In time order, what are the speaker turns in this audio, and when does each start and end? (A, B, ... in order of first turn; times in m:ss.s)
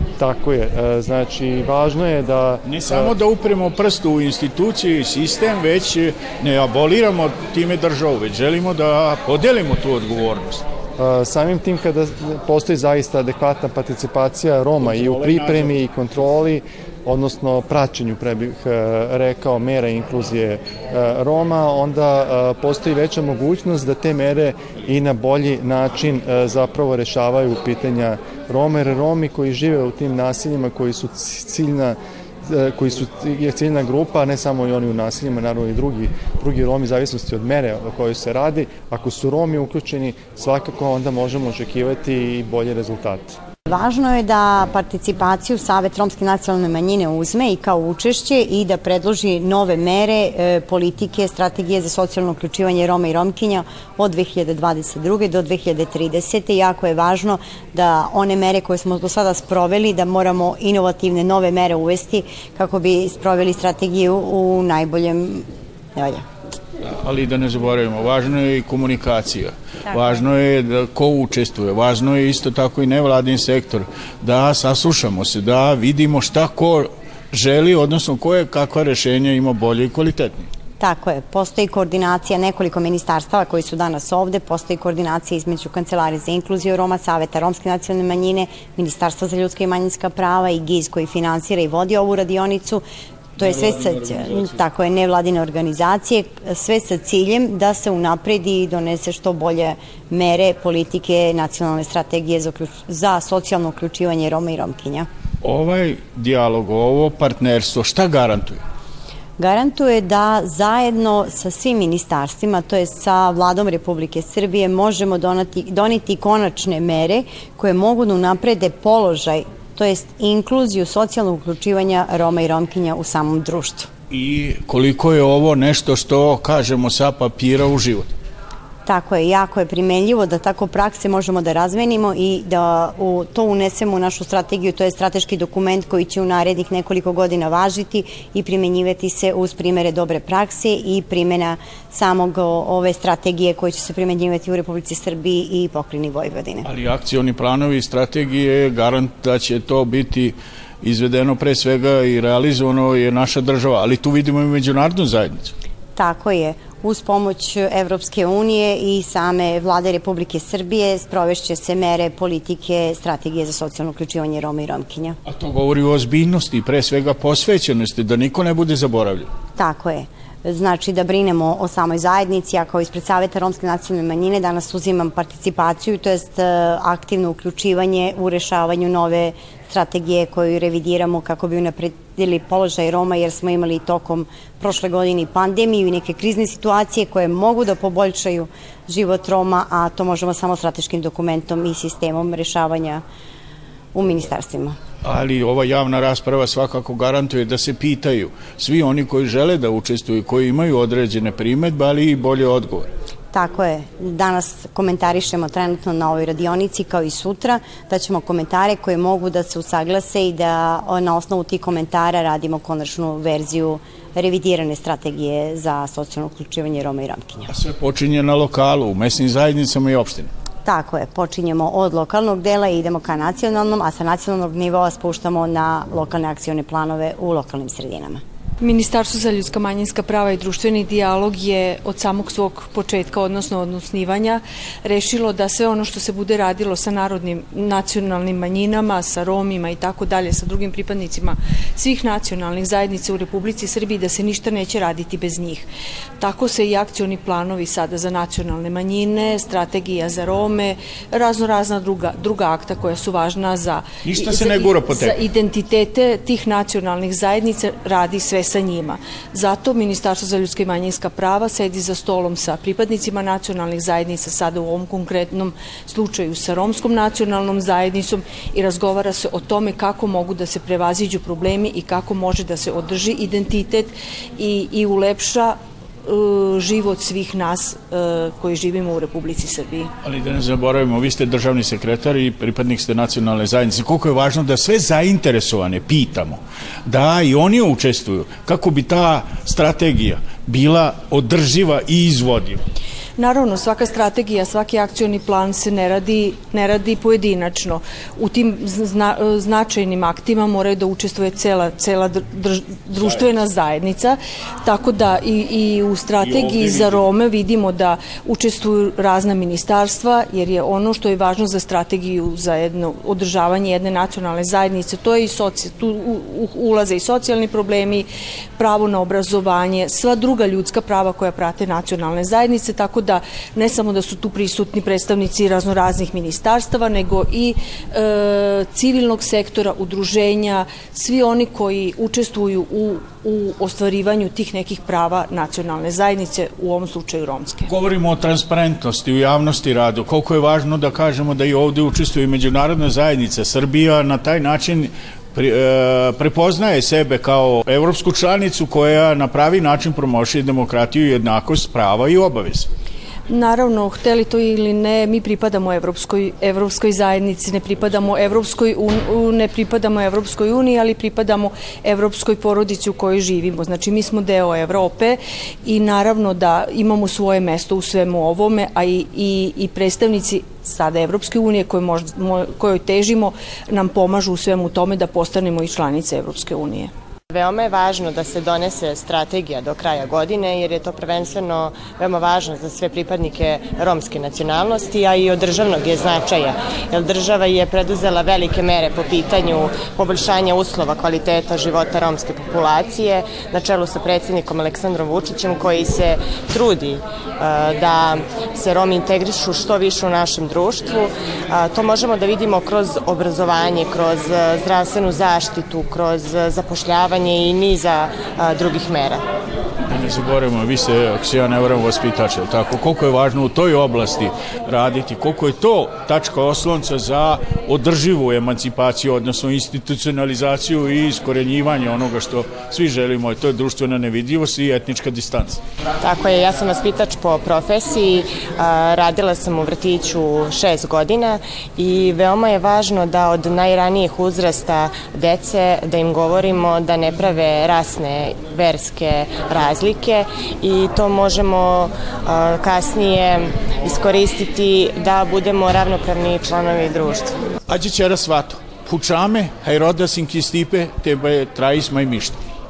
0:00.2-0:03.1 A
0:02.6-0:10.6 B
0:11.0-0:43.4 A
0:14.8-0:15.8 B
0:43.7-1:06.2 C
1:06.8-1:20.5 B
1:20.8-1:32.8 C
1:33.4-1:45.1 C
1:33.4-1:34.6 B
1:45.4-1:48.6 B
1:49.4-2:03.9 C
2:04.1-2:08.1 B
2:08.8-2:26.7 C
2:26.6-2:35.5 B
2:35.9-2:45.2 C
2:45.2-2:49.3 B
2:49.6-3:13.0 C
3:13.9-3:14.8 C
3:15.0-3:22.9 B
3:23.3-3:37.5 C
3:37.5-3:40.3 B
3:40.6-3:48.2 C
3:48.6-4:05.7 D
4:06.2-4:39.9 D
4:14.0-4:15.2 B
4:40.0-4:52.6 B
4:53.2-5:37.7 D
5:03.0-5:03.3 B
5:06.2-5:07.1 B
5:37.7-5:52.7 B
5:53.3-6:16.9 D
6:17.3-6:49.2 E
6:49.8-7:05.6 B
7:06.0-7:27.4 E
7:27.7-7:32.4 B